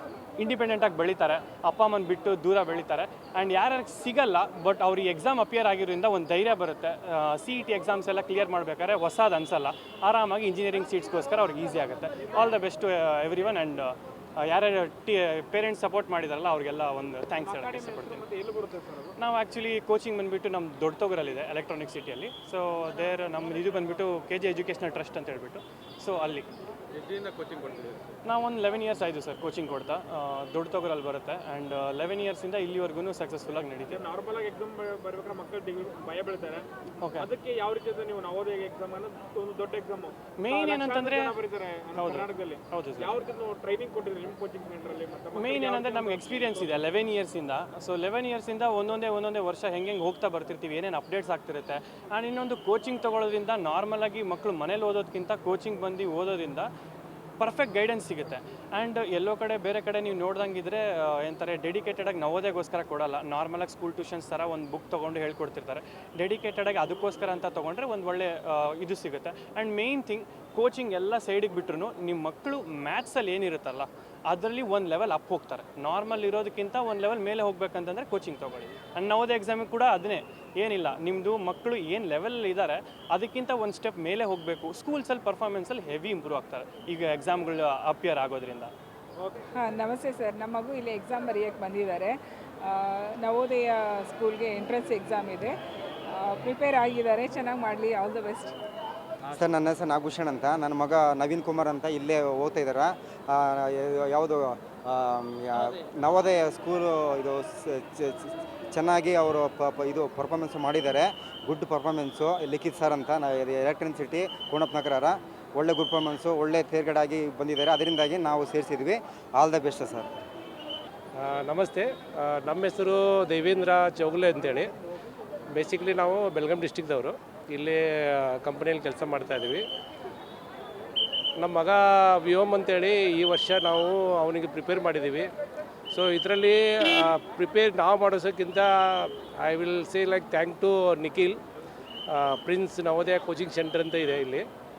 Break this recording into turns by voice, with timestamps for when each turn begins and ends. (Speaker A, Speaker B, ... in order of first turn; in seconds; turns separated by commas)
Speaker A: 0.4-18.2, Speaker B: 17.5-19.1, Speaker A: 19.2-26.5, Speaker A: 28.2-34.0, Speaker B: 33.9-36.6, Speaker A: 37.0-37.3, Speaker B: 37.3-46.6, Speaker A: 40.4-41.4, Speaker A: 42.0-43.1, Speaker A: 45.3-56.7, Speaker A: 57.4-88.7, Speaker C: 89.5-95.6, Speaker C: 96.1-98.6, Speaker D: 99.3-120.1, Speaker E: 121.2-124.7, Speaker E: 125.5-129.6, Speaker E: 131.4-135.3, Speaker E: 135.9-141.4, Speaker E: 142.1-144.4